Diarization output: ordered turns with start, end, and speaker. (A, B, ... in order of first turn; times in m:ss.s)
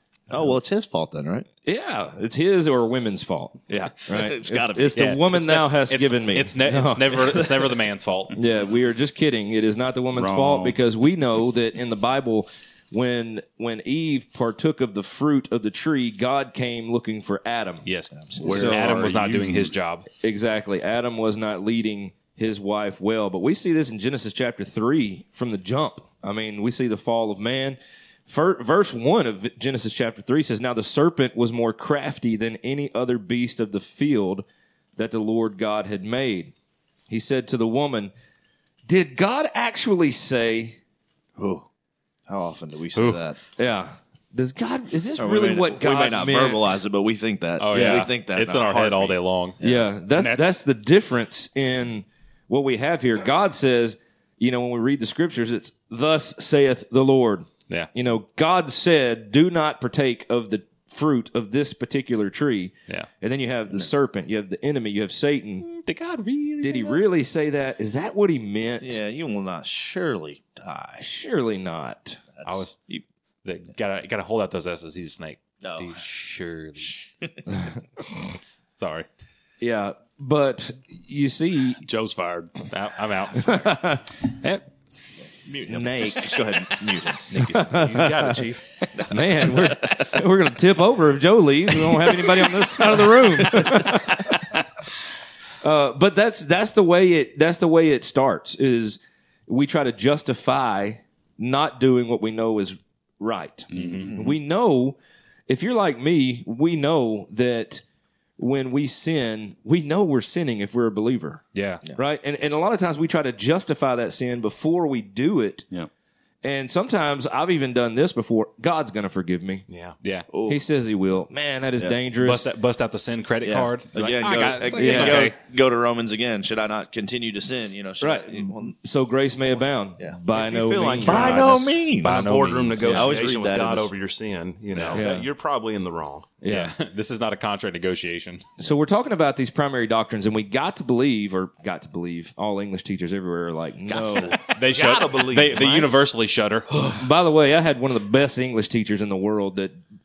0:00.3-0:01.5 A
0:01.6-0:07.4 B
0:03.7-0:05.1 A
0:04.9-0:08.4 C
0:08.3-0:17.9 B
0:10.1-0:10.8 D
0:17.8-0:20.1 C
0:18.1-0:18.4 A
0:18.4-0:18.9 B
0:18.4-0:19.7 D
0:20.2-0:34.4 B
0:35.0-0:36.5 B
0:37.1-0:38.1 B
0:38.9-0:40.8 B
0:41.4-0:41.6 A
0:42.3-0:43.4 A
0:42.9-0:43.2 C
0:43.6-0:46.8 B
0:45.2-0:49.9 A
0:47.6-0:49.6 C
0:47.7-0:48.1 B
0:49.6-1:05.6 B
0:50.1-0:50.6 D
1:05.6-1:07.0 C
1:06.6-1:09.0 B
1:08.8-1:11.0 A
1:11.0-1:12.2 B
1:12.4-1:13.0 A
1:12.4-1:12.8 C
1:13.4-1:17.0 C
1:15.6-1:16.0 A
1:16.9-1:17.4 A
1:18.8-1:19.1 C
1:19.6-1:21.8 B
1:21.8-1:22.6 D
1:22.7-1:23.7 C
1:23.3-1:24.0 B
1:24.4-1:24.6 C
1:25.4-1:27.6 A
1:25.6-1:26.4 B
1:27.3-1:27.7 C
1:27.3-1:28.4 B
1:27.6-1:28.6 E
1:29.0-1:30.1 A
1:29.1-1:34.4 B
1:31.9-1:34.3 A
1:35.6-1:45.0 B
1:43.7-1:44.0 D
1:43.7-1:44.1 C
1:44.1-1:44.3 A
1:45.5-1:47.8 B
1:48.4-1:51.4 B
1:51.5-1:51.8 C
1:51.9-1:55.7 B
1:56.4-1:59.6 B
1:59.7-2:00.0 E
2:00.0-2:00.3 C
2:00.3-2:00.6 A
2:00.5-2:02.4 B
2:02.2-2:05.4 C
2:03.4-2:08.7 A
2:04.7-2:05.3 B
2:08.0-2:11.6 B
2:10.3-2:16.3 E
2:11.0-2:12.3 A
2:11.2-2:13.2 C
2:12.8-2:13.1 B
2:12.9-2:13.9 A
2:14.7-2:15.0 C
2:14.9-2:15.3 B
2:16.4-2:16.7 B
2:16.5-2:18.4 C
2:18.6-2:24.4 B
2:23.9-2:24.5 A
2:24.5-2:27.0 C
2:24.7-2:25.9 E
2:26.9-2:29.8 B